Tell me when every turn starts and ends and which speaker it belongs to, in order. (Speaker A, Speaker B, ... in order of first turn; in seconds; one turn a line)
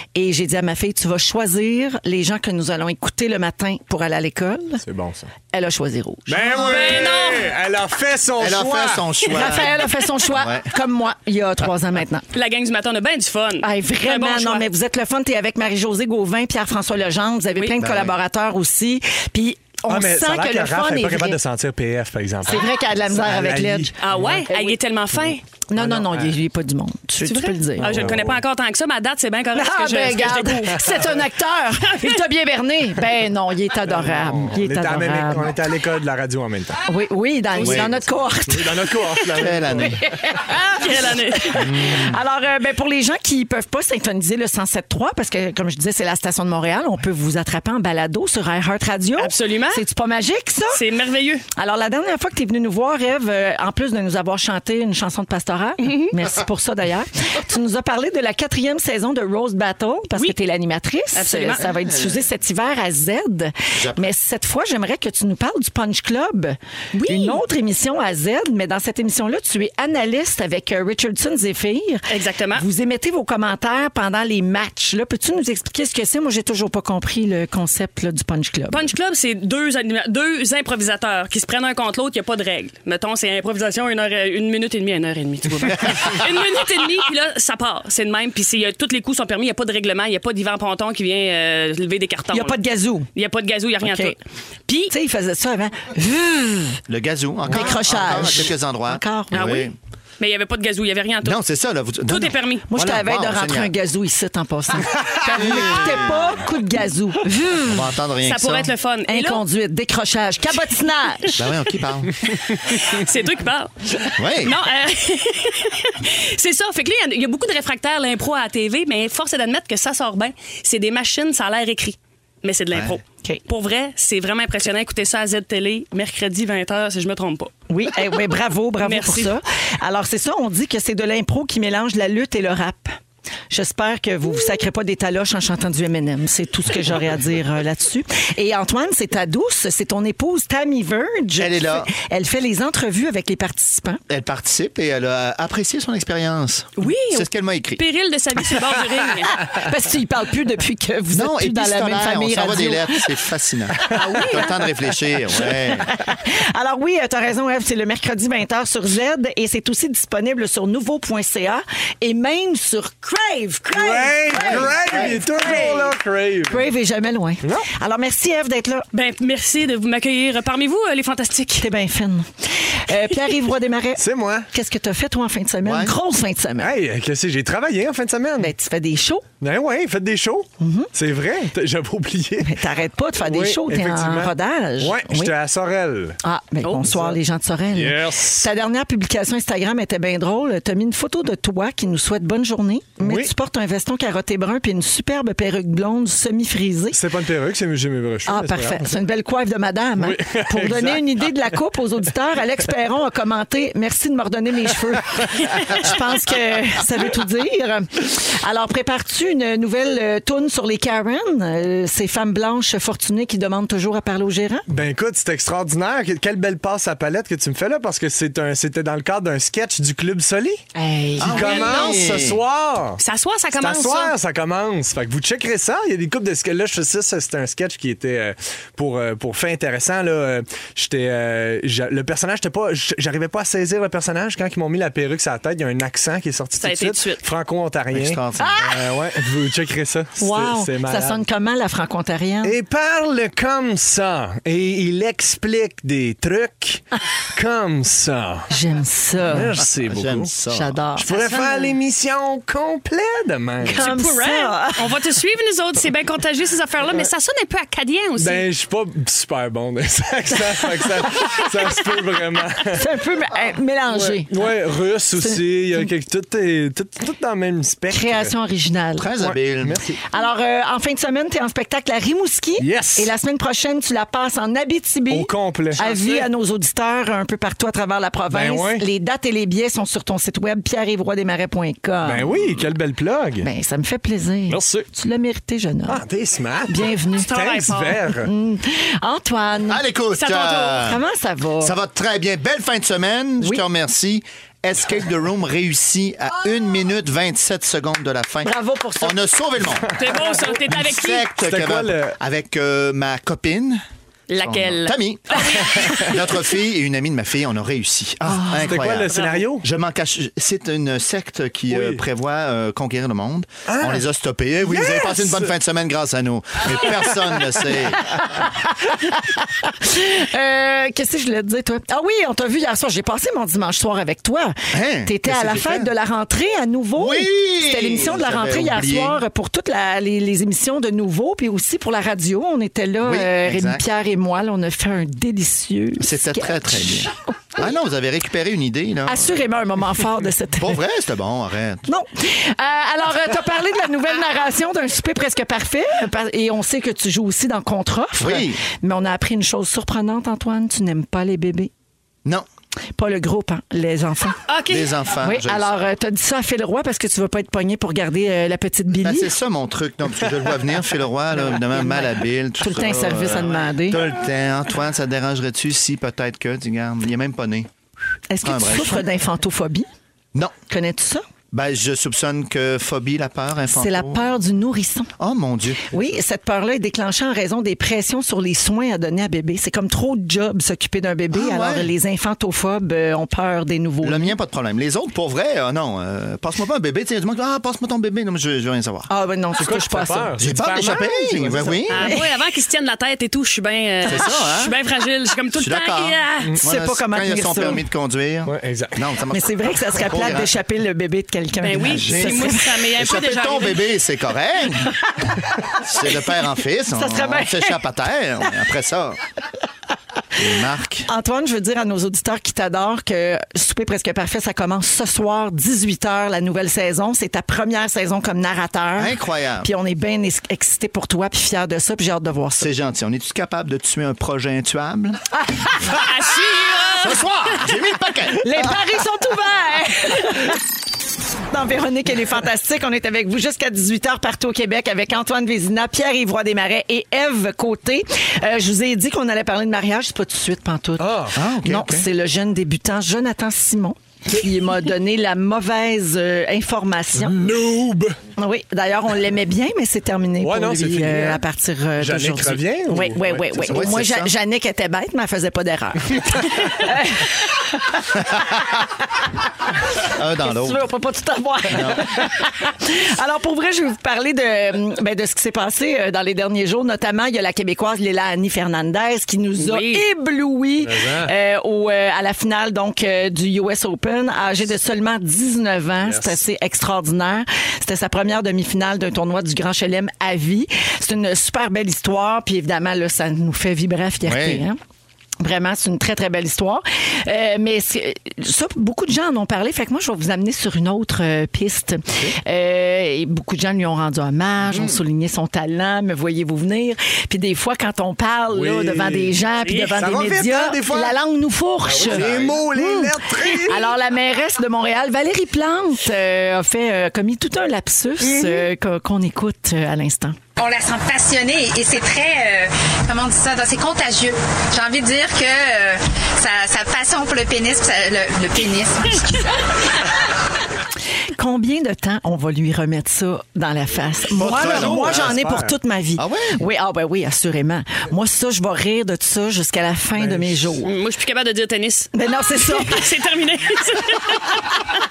Speaker A: 0.1-4.8
Speaker B: 4.8-5.3
Speaker A: 5.5-7.0
Speaker B: 6.3-9.6
Speaker C: 6.5-7.5
Speaker D: 8.4-10.7
Speaker A: 9.3-12.2
Speaker C: 12.3-14.6
Speaker A: 13.6-21.4
Speaker D: 17.8-18.2
Speaker B: 19.9-24.4
Speaker A: 22.5-24.8
Speaker C: 24.0-25.4
Speaker A: 25.7-28.1
Speaker B: 25.8-26.4
Speaker C: 27.2-31.0
Speaker B: 27.8-28.4
Speaker A: 29.5-35.5
Speaker C: 31.9-32.2
Speaker B: 33.9-36.8
Speaker A: 36.9-39.0
Speaker D: 37.5-38.0
Speaker B: 38.5-40.0
Speaker D: 39.2-40.0
Speaker A: 39.8-50.8
Speaker C: 40.7-41.6
Speaker B: 41.6-42.1
Speaker C: 49.2-49.8
Speaker C: 50.7-51.4
Speaker A: 51.5-78.9
Speaker C: 55.8-56.1
Speaker C: 61.1-61.6
Speaker D: 61.5-62.3
Speaker D: 63.7-64.0
Speaker C: 66.9-67.4
Speaker C: 72.1-72.6
Speaker C: 78.7-92.6
Speaker A: 92.3-93.1
Speaker C: 93.1-94.9
Speaker A: 93.8-94.2
Speaker A: 94.9-96.8
Speaker D: 96.9-99.7
Speaker A: 97.5-99.6
Speaker C: 99.3-99.7
Speaker C: 100.2-101.4
Speaker D: 101.2-103.7
Speaker C: 102.1-102.7
Speaker A: 102.7-107.9
Speaker B: 104.9-105.4
Speaker D: 105.2-106.4
Speaker D: 107.6-108.7
Speaker C: 108.2-109.4
Speaker A: 109.1-111.4
Speaker D: 111.3-112.2
Speaker C: 112.7-127.5
Speaker D: 114.2-114.6
Speaker D: 122.7-123.0
Speaker A: 127.7-132.9
Speaker C: 128.8-129.3
Speaker A: 133.5-144.0
Speaker D: 141.4-141.9
Speaker D: 144.1-147.8
Speaker A: 146.8-147.2
Speaker C: 147.8-149.4
Speaker A: 149.4-153.1
Speaker D: 151.1-155.9
Speaker A: 153.9-154.2
Speaker C: 153.9-154.5
Speaker A: 155.5-165.9
Speaker B: 163.7-166.7
Speaker D: 164.3-165.2
Speaker A: 166.5-168.8
Speaker C: 168.9-171.7
Speaker A: 171.6-176.7
Speaker B: 174.0-174.5
Speaker D: 175.6-175.9
Speaker B: 176.6-178.5
Speaker A: 178.4-179.2
Speaker B: 179.4-182.6
Speaker A: 180.6-180.9
Speaker A: 182.4-185.3
Speaker B: 183.2-186.2
Speaker A: 186.2-197.0
Speaker B: 186.8-187.2
Speaker B: 187.7-188.5
Speaker B: 193.0-193.3
Speaker B: 196.9-198.9
Speaker A: 198.3-214.7
Speaker B: 200.0-201.4
Speaker B: 205.1-205.9
Speaker B: 214.7-220.6
Speaker A: 220.7-221.6
Speaker D: 221.2-222.4
Speaker B: 221.2-223.0
Speaker C: 221.3-222.2
Speaker C: 223.0-224.1
Speaker B: 223.5-241.2
Speaker C: 236.6-237.2
Speaker D: 237.9-238.6
Speaker A: 238.4-238.9
Speaker A: 240.2-242.6
Speaker B: 242.4-248.5
Speaker A: 248.5-249.6
Speaker B: 249.2-250.3
Speaker D: 249.6-250.8
Speaker A: 250.5-251.1
Speaker B: 251.0-253.8
Speaker C: 251.1-251.7
Speaker A: 253.6-254.9
Speaker C: 253.7-258.4
Speaker B: 258.2-262.9
Speaker A: 262.7-264.5
Speaker B: 263.9-268.3
Speaker A: 265.1-265.9
Speaker A: 267.9-269.1
Speaker D: 269.0-269.9
Speaker B: 269.2-270.0
Speaker A: 270.1-282.7
Speaker B: 272.6-273.1
Speaker B: 275.1-276.3
Speaker B: 278.3-278.9
Speaker B: 282.0-283.5
Speaker A: 283.4-286.0
Speaker B: 284.5-284.9
Speaker B: 285.9-288.3
Speaker A: 286.6-287.3
Speaker C: 287.2-288.1
Speaker A: 288.2-289.8
Speaker D: 289.7-291.0
Speaker C: 290.2-290.9
Speaker A: 290.8-291.7
Speaker D: 291.6-300.0
Speaker A: 298.4-299.2
Speaker B: 299.8-300.6
Speaker C: 300.0-301.3
Speaker D: 300.7-303.8
Speaker B: 301.4-302.2
Speaker C: 304.3-305.4
Speaker D: 304.4-318.2
Speaker B: 305.4-306.2
Speaker A: 308.3-308.8
Speaker B: 308.5-309.7
Speaker C: 309.1-309.4
Speaker B: 311.7-312.0
Speaker B: 313.7-314.0
Speaker B: 314.6-315.5
Speaker A: 318.1-336.9
Speaker D: 324.7-325.9
Speaker D: 327.0-329.2
Speaker D: 333.0-333.9
Speaker D: 336.0-339.4
Speaker A: 339.1-340.8
Speaker D: 340.6-341.9
Speaker A: 341.9-351.7
Speaker D: 348.2-348.6
Speaker A: 352.9-354.4
Speaker C: 354.5-354.9
Speaker D: 354.7-355.7
Speaker A: 355.2-359.3
Speaker D: 359.0-367.7
Speaker A: 361.3-364.1
Speaker A: 368.3-369.9
Speaker D: 368.4-369.1
Speaker A: 370.7-371.2
Speaker D: 371.5-374.2
Speaker A: 373.7-375.1
Speaker D: 375.2-376.2
Speaker A: 375.9-384.3
Speaker D: 381.3-381.9
Speaker D: 384.0-389.1
Speaker A: 389.1-390.4
Speaker B: 389.5-391.8
Speaker D: 390.4-392.1
Speaker C: 391.9-396.5
Speaker A: 392.0-392.3
Speaker D: 394.0-394.7
Speaker D: 395.5-400.5
Speaker A: 396.6-397.8
Speaker B: 398.4-399.0
Speaker A: 399.3-402.6
Speaker C: 401.6-403.9
Speaker D: 401.9-405.0
Speaker D: 405.7-409.2
Speaker A: 406.9-407.8
Speaker D: 410.4-411.1
Speaker A: 411.1-422.7
Speaker D: 418.9-419.7
Speaker D: 422.6-425.2
Speaker A: 425.4-425.8
Speaker C: 425.9-427.2
Speaker D: 426.9-428.8
Speaker A: 428.4-430.6
Speaker A: 431.5-447.5
Speaker B: 441.0-441.4
Speaker D: 441.3-442.1
Speaker B: 447.1-448.2
Speaker A: 448.4-458.2
Speaker B: 450.4-451.4
Speaker B: 452.0-453.9
Speaker D: 453.6-454.3
Speaker D: 458.2-458.8
Speaker D: 460.0-460.8
Speaker A: 460.4-484.8
Speaker D: 461.7-462.1
Speaker C: 469.6-470.0
Speaker B: 470.8-471.3
Speaker B: 476.0-476.4
Speaker D: 484.2-484.6
Speaker A: 485.4-510.4
Speaker B: 498.5-499.4
Speaker C: 499.6-500.0
Speaker B: 499.9-501.1
Speaker B: 501.9-504.0
Speaker D: 502.0-502.6
Speaker E: 510.6-519.6
Speaker A: 521.4-530.9
Speaker D: 524.3-525.4
Speaker B: 524.4-525.7
Speaker D: 526.2-526.6
Speaker B: 530.1-530.8
Speaker C: 530.8-534.8
Speaker A: 532.1-533.1